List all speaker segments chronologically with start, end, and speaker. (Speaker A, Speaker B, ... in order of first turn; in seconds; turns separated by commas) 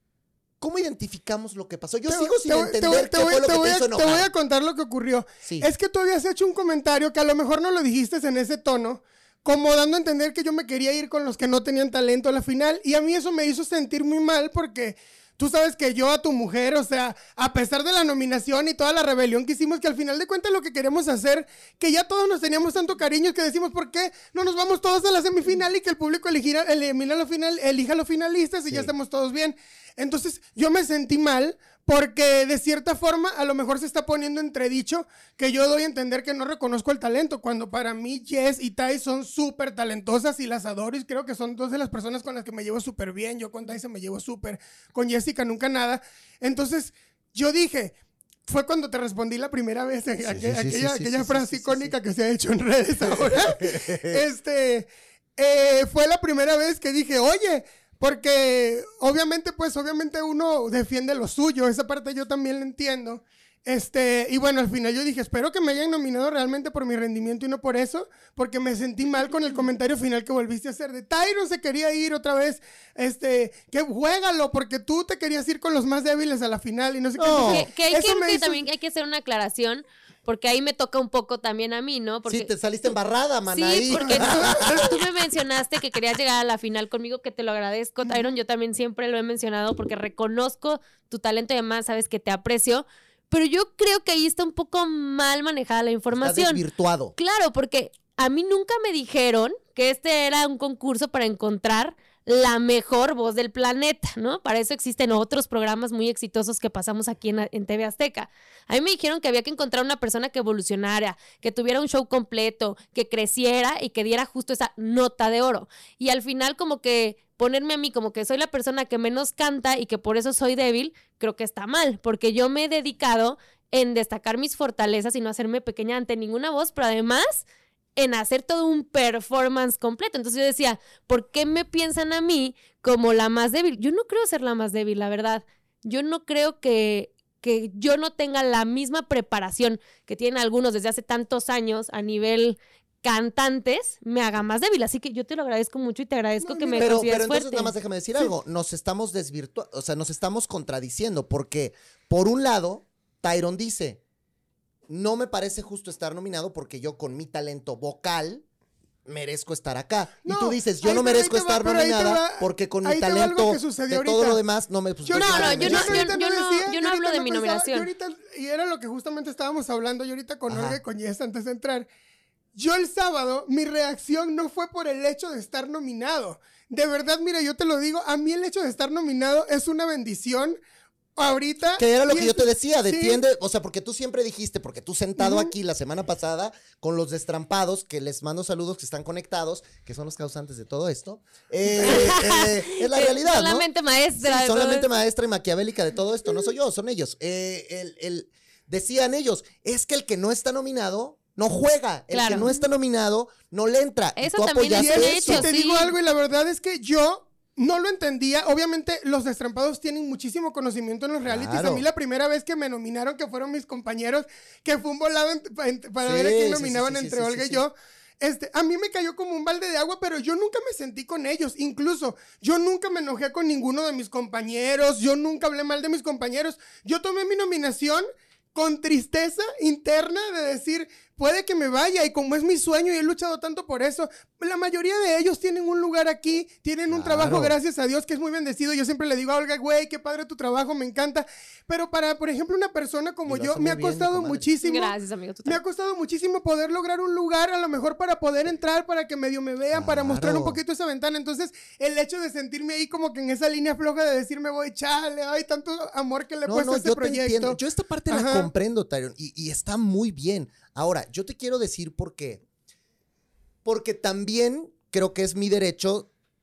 Speaker A: 0.6-4.3, Speaker B: 2.1-48.0, Speaker A: 5.4-5.7, Speaker B: 48.5-78.7, Speaker A: 50.3-51.9, Speaker A: 53.0-54.2, Speaker A: 77.2-77.7, Speaker C: 77.3-82.5, Speaker A: 82.3-84.9, Speaker C: 83.5-96.6, Speaker B: 84.0-85.0, Speaker B: 88.0-88.3, Speaker A: 96.1-97.2, Speaker C: 97.2-127.5, Speaker C: 128.0-147.8, Speaker B: 146.4-147.1, Speaker A: 146.8-154.0, Speaker A: 154.9-158.4, Speaker A: 159.1-166.1, Speaker B: 160.2-164.4, Speaker B: 165.1-171.9, Speaker C: 165.1-167.9, Speaker A: 170.5-170.8, Speaker B: 172.6-180.6, Speaker B: 181.2-183.2, Speaker A: 181.8-205.5, Speaker B: 185.2-185.5, Speaker C: 191.8-194.9, Speaker C: 202.1-202.7, Speaker C: 204.2-205.9, Speaker B: 204.7-257.6, Speaker A: 211.2-211.8, Speaker A: 216.0-217.6, Speaker A: 236.9-237.5, Speaker A: 243.3-244.4, Speaker C: 244.6-245.6, Speaker A: 249.7-250.6, Speaker A: 256.5-262.4, Speaker B: 258.1-258.5, Speaker A: 263.6-266.1